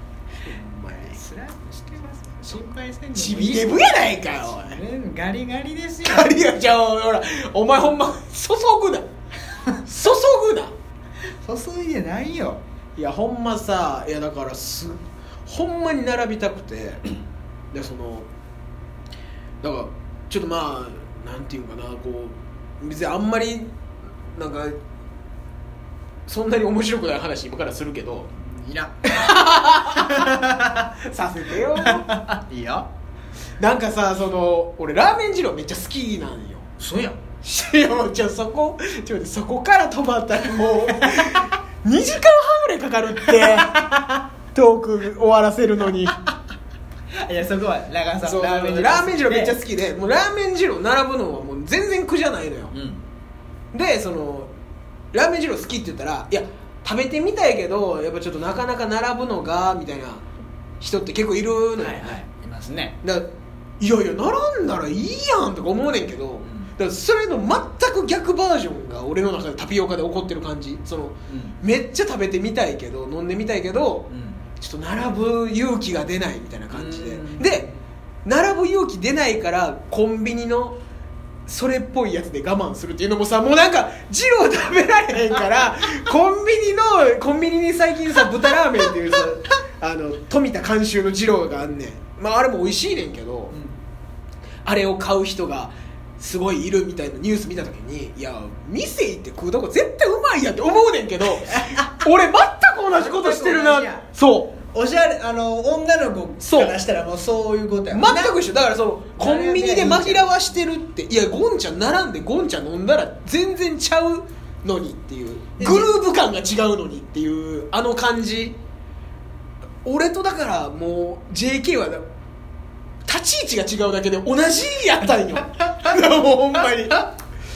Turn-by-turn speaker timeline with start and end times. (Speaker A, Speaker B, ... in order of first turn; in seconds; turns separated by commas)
Speaker A: 0.5-1.2, Speaker B: 1.0-6.4, Speaker A: 3.1-4.8, Speaker A: 6.0-9.1, Speaker A: 9.8-10.8, Speaker B: 11.4-12.6, Speaker A: 13.0-17.0, Speaker A: 17.7-18.3, Speaker A: 19.6-23.7, Speaker A: 24.3-24.8, Speaker A: 26.3-28.3, Speaker B: 28.4-30.9, Speaker A: 29.1-30.3, Speaker A: 31.0-32.1, Speaker B: 31.8-32.9, Speaker A: 33.6-36.7, Speaker B: 36.8-37.2, Speaker A: 37.4-43.8, Speaker B: 40.9-41.5, Speaker B: 43.3-44.2, Speaker A: 44.5-46.2, Speaker B: 47.2-49.6, Speaker A: 48.2-52.8, Speaker B: 52.7-53.0, Speaker A: 53.7-54.5, Speaker A: 55.1-60.3, Speaker A: 60.8-62.2, Speaker B: 61.8-63.0, Speaker A: 63.8-77.7, Speaker B: 66.4-66.7, Speaker B: 71.3-71.6, Speaker B: 74.1-74.4, Speaker B: 76.7-77.8, Speaker A: 78.2-80.8, Speaker A: 81.5-93.6, Speaker A: 94.7-104.6, Speaker B: 101.5-102.1, Speaker B: 102.9-104.1, Speaker B: 104.7-108.4, Speaker A: 106.4-106.8, Speaker A: 107.9-118.6, Speaker B: 109.2-110.3, Speaker B: 115.6-115.9, Speaker A: 119.8-122.0, Speaker A: 123.1-127.1